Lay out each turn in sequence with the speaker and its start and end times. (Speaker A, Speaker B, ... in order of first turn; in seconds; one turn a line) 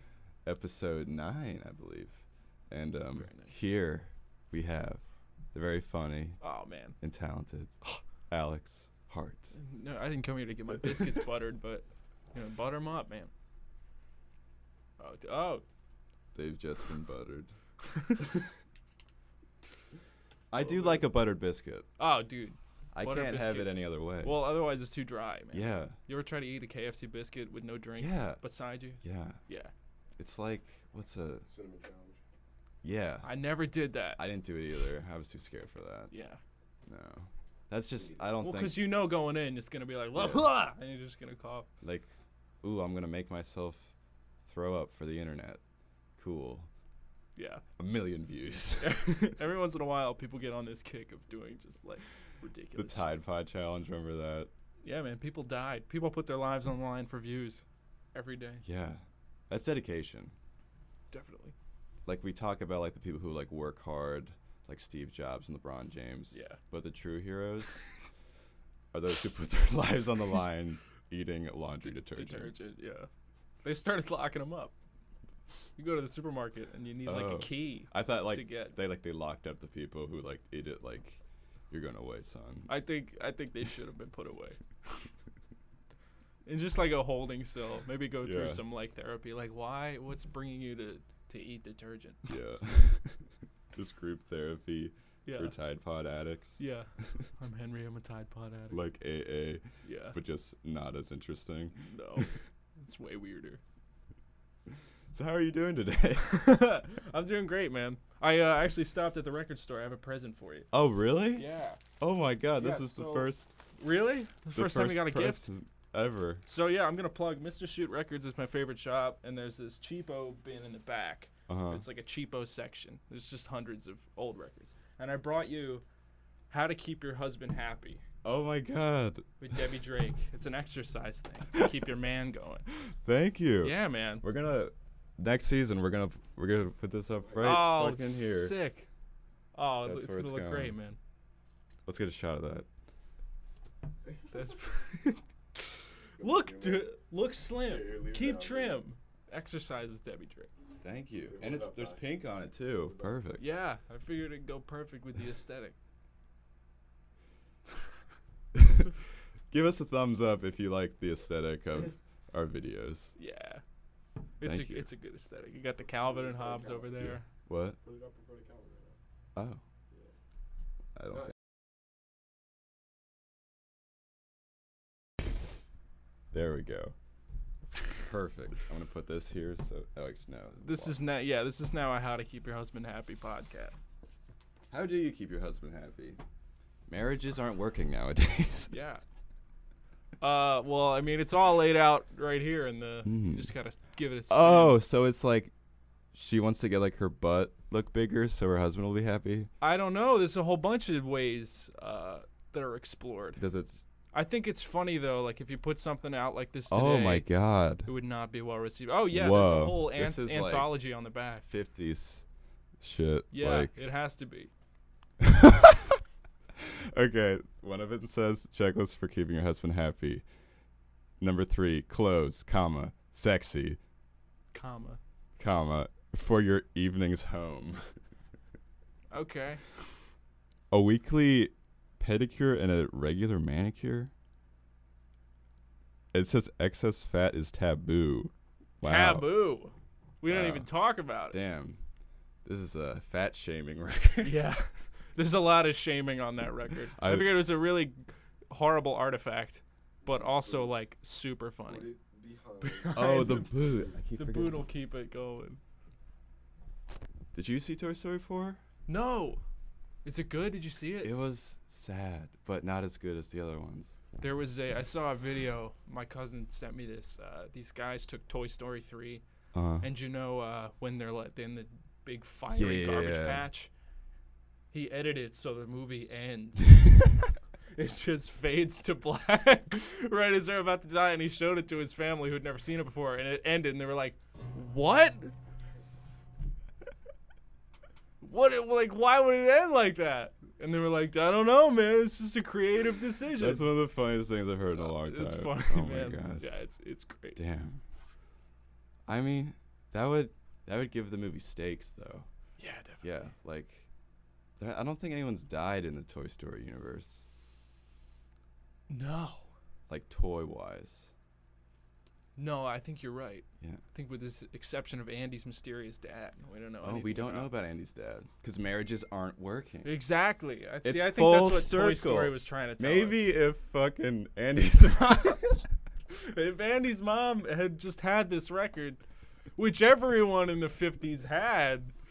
Speaker A: 0.5-6.4
Speaker B: 3.1-3.6
Speaker B: 6.4-7.0
Speaker A: 7.0-7.7
Speaker A: 8.3-9.5
Speaker B: 9.5-13.3
Speaker B: 15.0-15.6
Speaker A: 16.4-17.5
Speaker B: 17.9-18.3
Speaker A: 20.5-21.9
Speaker B: 20.6-21.0
Speaker B: 22.0-29.7
Speaker A: 22.9-24.4
Speaker A: 25.5-26.0
Speaker A: 28.0-28.4
Speaker A: 29.0-29.4
Speaker A: 30.2-31.4
Speaker C: 31.5-32.2
Speaker A: 32.8-33.3
Speaker B: 33.2-34.2
Speaker A: 34.2-36.1
Speaker B: 36.1-36.4
Speaker A: 36.9-38.9
Speaker C: 37.9-38.3
Speaker B: 38.4-41.7
Speaker A: 40.1-40.4
Speaker A: 41.8-45.6
Speaker A: 46.2-46.7
Speaker B: 47.4-47.6
Speaker A: 47.8-49.1
Speaker B: 48.8-53.1
Speaker A: 52.8-54.5
Speaker B: 54.8-57.6
Speaker B: 58.1-58.6
Speaker A: 58.6-60.4
Speaker B: 61.1-61.5
Speaker A: 62.1-67.8
Speaker B: 66.3-66.6
Speaker A: 68.9-72.5
Speaker B: 71.8-73.1
Speaker B: 73.6-74.7
Speaker B: 75.8-78.8
Speaker A: 77.0-82.7
Speaker B: 82.7-85.0
Speaker B: 86.5-92.3
Speaker A: 88.2-88.6
Speaker A: 92.3-93.2
Speaker A: 93.7-96.6
Speaker B: 95.3-95.5
Speaker B: 96.6-98.8
Speaker A: 98.7-102.3
Speaker B: 99.8-100.2
Speaker B: 101.8-103.6
Speaker A: 105.1-106.3
Speaker B: 106.2-110.7
Speaker A: 110.7-111.5
Speaker B: 111.3-111.8
Speaker A: 112.0-113.5
Speaker B: 112.5-115.5
Speaker A: 114.5-116.4
Speaker B: 116.5-125.8
Speaker A: 121.5-121.8
Speaker B: 126.5-128.0
Speaker A: 128.2-129.3
Speaker B: 129.4-132.7
Speaker A: 132.8-138.6
Speaker B: 133.6-134.2
Speaker C: 137.2-137.6
Speaker B: 137.4-138.9
Speaker B: 139.5-141.0
Speaker A: 139.8-140.8
Speaker A: 141.9-142.7
Speaker B: 144.3-150.5
Speaker C: 146.2-146.9
Speaker C: 147.6-148.8
Speaker A: 150.8-153.5
Speaker C: 151.3-153.2
Speaker B: 153.4-155.8
Speaker A: 158.5-158.9
Speaker A: 159.5-163.2
Speaker B: 163.2-163.6
Speaker B: 164.4-167.3
Speaker A: 164.4-164.9
Speaker C: 165.9-167.1
Speaker A: 167.0-167.8
Speaker C: 167.8-169.0
Speaker A: 169.3-169.6
Speaker A: 171.0-171.3
Speaker A: 176.3-176.9
Speaker A: 177.9-181.0
Speaker B: 180.6-183.8
Speaker A: 184.7-186.2
Speaker A: 186.9-188.7
Speaker B: 188.7-189.0
Speaker B: 190.2-194.8
Speaker A: 193.1-193.5
Speaker A: 194.3-195.5
Speaker A: 196.1-199.5
Speaker B: 199.6-203.4
Speaker A: 203.4-203.8
Speaker B: 204.1-207.3
Speaker A: 206.7-207.9
Speaker B: 207.8-211.5
Speaker A: 209.1-210.8
Speaker A: 211.5-212.2
Speaker A: 212.8-213.8
Speaker B: 213.3-214.5
Speaker A: 215.2-216.0
Speaker A: 216.6-220.2
Speaker A: 221.2-223.8
Speaker B: 224.5-225.0
Speaker A: 225.4-227.9
Speaker B: 229.1-229.6
Speaker A: 230.7-234.1
Speaker A: 236.1-239.3
Speaker B: 238.8-241.4
Speaker A: 240.3-240.7
Speaker A: 241.3-241.8
Speaker A: 242.4-244.4
Speaker B: 244.2-251.9
Speaker A: 246.9-247.4
Speaker C: 250.0-250.8
Speaker C: 251.7-253.7
Speaker B: 252.6-255.6
Speaker A: 252.9-254.6
Speaker A: 257.3-258.6
Speaker B: 258.9-259.4
Speaker B: 260.1-261.1
Speaker A: 261.0-264.0
Speaker B: 264.2-269.2
Speaker A: 269.5-269.9
Speaker B: 269.8-273.7
Speaker A: 272.5-273.4
Speaker B: 274.7-276.9
Speaker B: 277.7-285.4
Speaker B: 288.2-293.7
Speaker A: 293.4-296.4
Speaker B: 294.7-297.4
Speaker A: 297.4-297.8
Speaker A: 299.1-302.3
Speaker B: 302.6-303.3
Speaker A: 303.0-303.9
Speaker A: 304.6-307.2
Speaker B: 308.9-309.5
Speaker A: 309.9-311.1
Speaker B: 312.4-317.5
Speaker A: 316.8-320.0
Speaker B: 319.8-323.3
Speaker A: 320.8-325.6
Speaker B: 326.1-329.0
Speaker B: 329.6-331.9